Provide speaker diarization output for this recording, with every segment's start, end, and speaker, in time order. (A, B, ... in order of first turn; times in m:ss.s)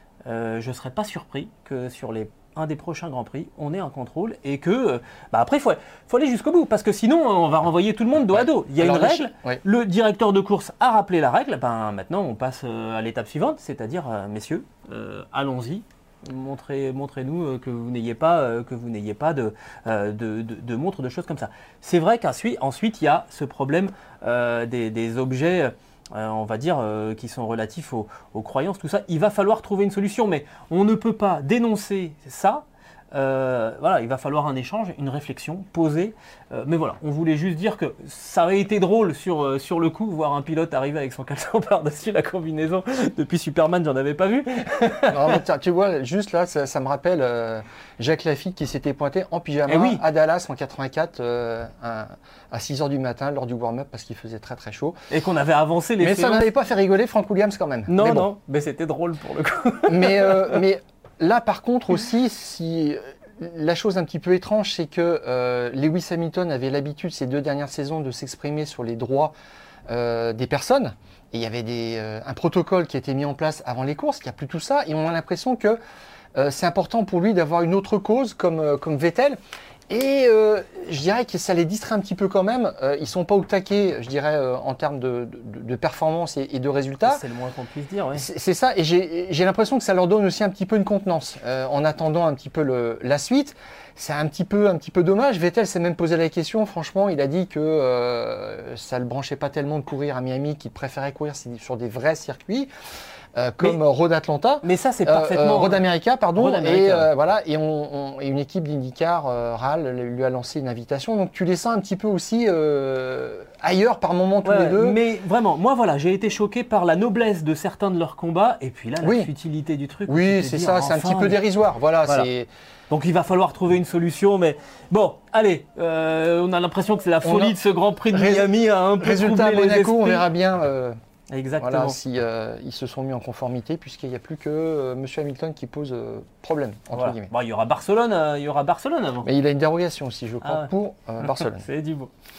0:00.3-0:45.4 A
0:08.3-0:09.6 B
0:45.1-0:55.0 B
0:49.7-0:50.0 A
0:55.1-0:56.5 A
0:56.0-0:58.3 B
0:57.9-1:00.6 A
0:59.9-1:09.3 B
1:09.9-1:15.8 B
1:16.4-1:27.2 B
1:27.0-1:28.3 A
1:28.2-1:42.7 B
1:43.4-1:55.0 B
1:44.6-1:45.8 A
1:46.4-1:47.1 A
1:54.4-2:01.4 A
1:59.0-1:59.3 B
2:00.1-2:02.5 B
2:02.9-2:10.3 A
2:07.2-2:07.6 B
2:08.1-2:11.0 B
2:11.3-2:12.0 A
2:11.6-2:17.3 B
2:16.9-2:19.3 A
2:19.2-2:21.6 B
2:20.4-2:20.7 A
2:21.2-2:22.1 A